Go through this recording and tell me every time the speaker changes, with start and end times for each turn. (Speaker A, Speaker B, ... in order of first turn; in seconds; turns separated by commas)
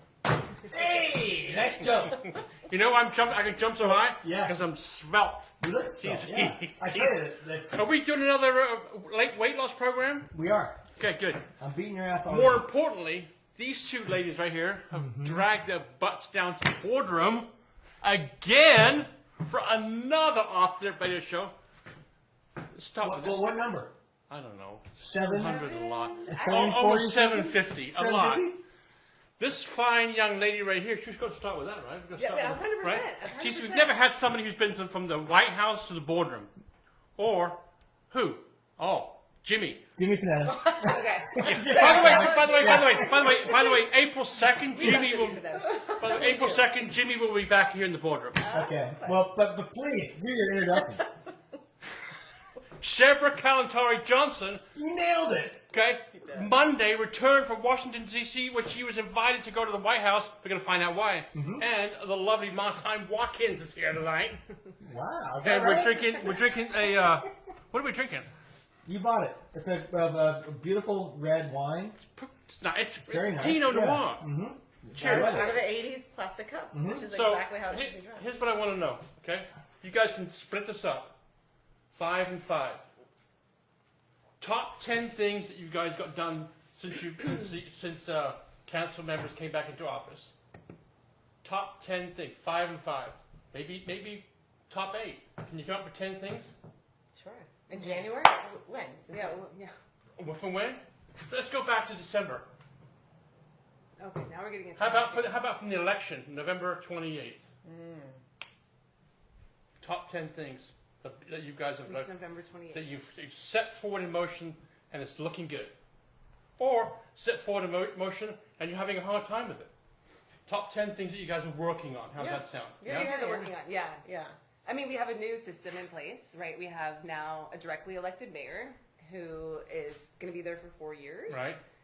Speaker A: 0.7-2.2, Speaker B: 2.7-7.2, Speaker A: 4.1-4.6, Speaker A: 5.6-7.8, Speaker B: 7.7-10.3, Speaker A: 10.3-10.8, Speaker B: 11.0-11.5, Speaker A: 11.6-12.7, Speaker B: 12.2-17.5, Speaker B: 18.0-21.5, Speaker B: 22.7-23.5, Speaker A: 23.0-23.9, Speaker B: 24.3-28.5, Speaker A: 25.0-25.6, Speaker C: 25.4-26.7, Speaker A: 26.3-28.6, Speaker B: 29.4-36.5, Speaker C: 32.2-34.0, Speaker B: 37.2-37.6, Speaker B: 38.1-39.8, Speaker A: 40.0-43.1, Speaker C: 40.5-43.8, Speaker B: 41.4-48.4, Speaker D: 41.7-42.4, Speaker D: 43.0-43.4, Speaker C: 44.7-46.5, Speaker C: 48.4-49.2, Speaker A: 48.5-51.1, Speaker B: 52.8-54.6, Speaker A: 54.8-55.6, Speaker B: 55.7-64.4, Speaker A: 61.3-61.6, Speaker A: 64.8-66.2, Speaker B: 65.4-68.3, Speaker A: 68.9-72.0, Speaker B: 72.0-74.2, Speaker A: 73.1-75.6, Speaker B: 74.9-75.6, Speaker D: 75.0-78.3, Speaker A: 76.7-77.1, Speaker B: 77.0-81.1, Speaker B: 81.9-82.8, Speaker B: 84.4-90.3, Speaker B: 91.4-96.5, Speaker D: 97.2-99.4, Speaker C: 97.7-98.1, Speaker C: 99.1-99.7, Speaker B: 100.2-102.5, Speaker C: 104.0-105.3, Speaker B: 104.8-107.4, Speaker D: 107.6-108.2, Speaker B: 109.8-112.1, Speaker C: 111.8-112.9, Speaker B: 112.7-115.7, Speaker B: 116.6-119.7, Speaker B: 120.5-123.1, Speaker D: 122.2-124.3, Speaker C: 122.9-124.1, Speaker C: 124.7-131.5, Speaker B: 131.3-131.6